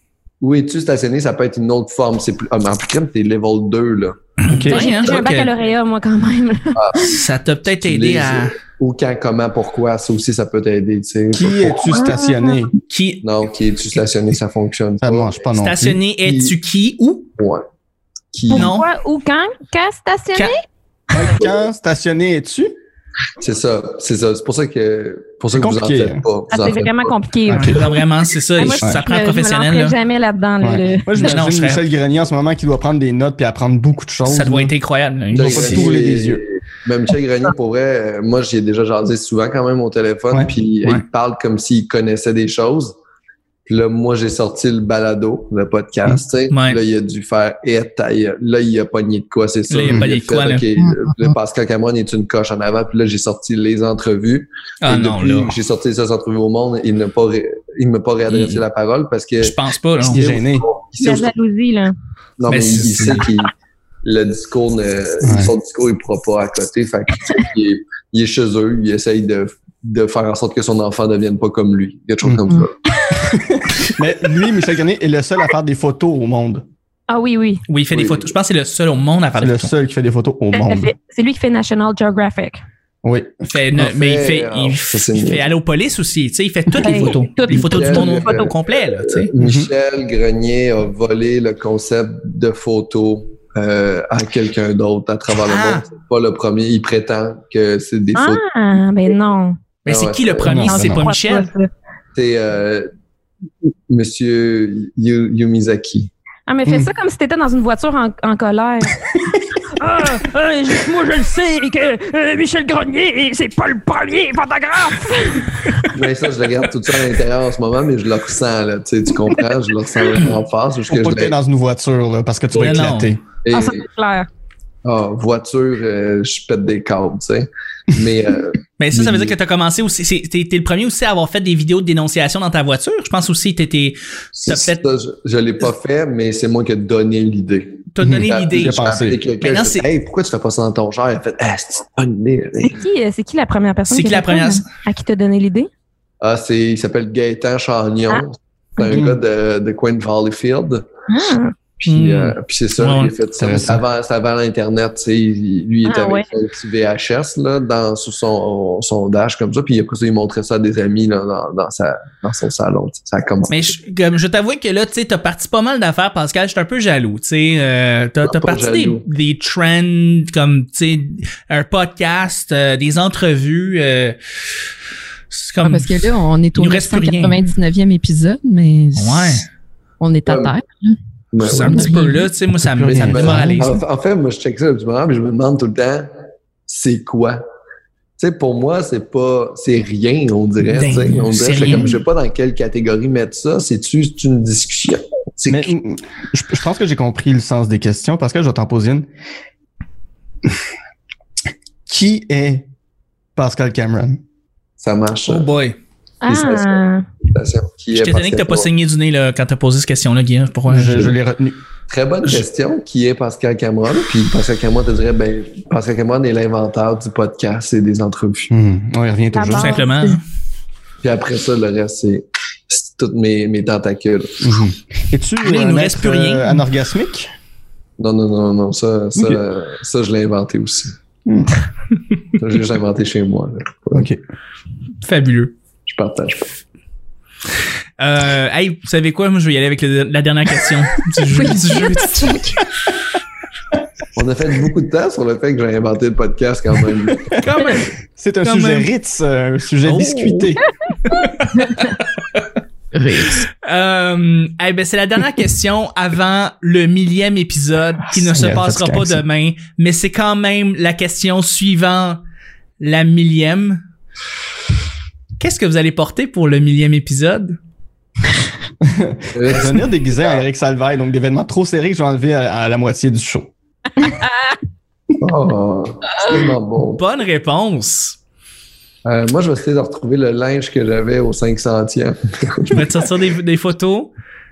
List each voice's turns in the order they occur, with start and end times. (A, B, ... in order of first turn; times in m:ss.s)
0:00.4-0:04.2 A
0:04.4-0:05.5 B
0:04.5-0:04.9 C
0:04.7-0:07.2 D
0:04.8-0:05.2 A
0:06.7-0:07.1 A
0:07.0-0:08.6 B
0:07.8-0:12.1 A
0:11.3-0:12.7 C
0:11.9-0:12.6 D
0:12.9-0:13.2 B
0:13.2-0:15.5 A
0:15.0-0:16.0 C
0:15.6-0:17.3 B
0:16.2-0:16.5 A
0:17.4-0:17.6 A
0:18.3-0:18.7 A
0:18.5-0:20.6 D
0:18.5-0:18.9 B
0:21.1-0:22.7 C
0:23.4-0:27.1 A
0:25.5-0:26.2 C
0:26.5-0:28.0 D
0:27.5-0:27.8 C
0:27.5-0:30.0 B
0:28.6-0:31.3 D
0:30.6-0:34.7 C
0:31.2-0:31.8 B
0:34.2-0:35.9 B
0:35.3-0:36.4 C
0:35.3-0:43.0 A
0:43.6-1:01.3 A
0:46.5-0:46.8 B
0:49.7-0:50.6 B
0:50.8-0:51.3 E
0:54.8-0:55.6 B
0:58.3-0:58.6 B
0:59.4-1:00.2 B
1:00.0-1:00.7 C
1:01.0-1:01.9 D
1:02.4-1:03.5 A
1:02.5-1:03.2 B
1:04.0-1:12.8 A
1:05.2-1:05.5 C
1:13.1-1:16.6 C
1:17.1-1:17.6 D
1:17.7-1:19.7 B
1:17.9-1:18.3 A
1:19.4-1:20.9 C
1:20.5-1:22.6 D
1:23.0-1:23.4 C
1:23.5-1:29.3 B
1:23.8-1:25.4 A
1:26.7-1:28.5 D
1:26.8-1:38.4 A
1:29.4-1:29.7 C
1:35.3-1:35.8 B
1:38.1-1:39.6 D
1:39.8-1:41.5 B
1:39.9-1:40.6 A
1:40.4-1:41.0 C
1:40.6-1:41.7 D
1:42.1-1:42.9 A
1:43.9-1:46.1 A
1:46.5-1:49.1 D
1:49.7-1:55.9 D
1:55.9-2:01.3 A
2:00.9-2:03.2 C
2:02.5-2:02.8 A
2:02.6-2:03.1 B
2:03.4-2:03.8 A
2:03.5-2:04.3 D
2:04.8-2:09.3 A
2:08.8-2:14.8 B
2:14.4-2:22.8 A
2:17.9-2:18.8 B
2:18.0-2:19.2 C
2:19.4-2:19.8 B
2:22.6-2:25.7 D
2:23.9-2:24.6 B
2:26.2-2:30.8 A
2:28.9-2:29.2 C
2:31.1-2:31.5 D
2:31.8-2:43.7 A
2:31.9-2:33.1 B
2:33.4-2:33.8 C
2:35.8-2:36.2 D
2:43.5-2:54.2 B
2:48.2-2:49.0 A
2:55.3-2:57.4 B
2:55.6-2:59.4 E
2:59.0-2:59.5 B
3:00.0-3:01.0 E
3:00.3-3:00.5 A
3:01.3-3:01.9 A
3:01.4-3:03.7 B
3:01.6-3:02.3 E
3:02.6-3:03.8 C
3:02.9-3:06.1 A
3:06.7-3:07.4 A
3:08.2-3:15.7 A
3:10.7-3:12.0 B
3:15.5-3:19.1 C
3:21.9-3:22.7 C
3:23.4-3:24.2 C
3:24.8-3:25.5 A
3:25.3-3:25.8 B
3:26.2-3:27.0 D
3:26.3-3:28.7 A
3:27.9-3:31.1 B
3:30.7-3:31.6 C
3:31.9-3:38.5 A
3:38.5-3:39.8 C
3:39.3-3:40.2 D
3:39.5-3:40.2 B
3:41.0-3:44.4 A
3:44.4-3:47.3 C
3:45.4-3:46.6 B
3:48.0-3:50.9 A
3:49.2-3:49.4 C
3:51.2-3:51.5 C
3:52.4-3:54.1 A
3:53.9-3:54.2 C
3:55.0-3:55.5 B
3:55.9-3:56.6 A
3:58.0-4:02.6 B
4:01.3-4:02.6 E
4:04.1-4:07.3 A
4:07.4-4:07.9 B
4:08.2-4:10.6 C
4:08.4-4:08.9 B
4:09.8-4:10.4 B
4:11.1-4:12.0 B
4:12.9-4:13.5 E
4:13.6-4:22.2 B
4:18.1-4:19.2 C
4:22.8-4:23.8 B
4:25.4-4:27.6 B
4:28.8-4:33.5 C
4:29.3-4:30.4 A
4:35.2-4:37.0 A
4:37.0-4:38.2 B
4:39.0-4:42.8 A
4:42.7-4:44.1 B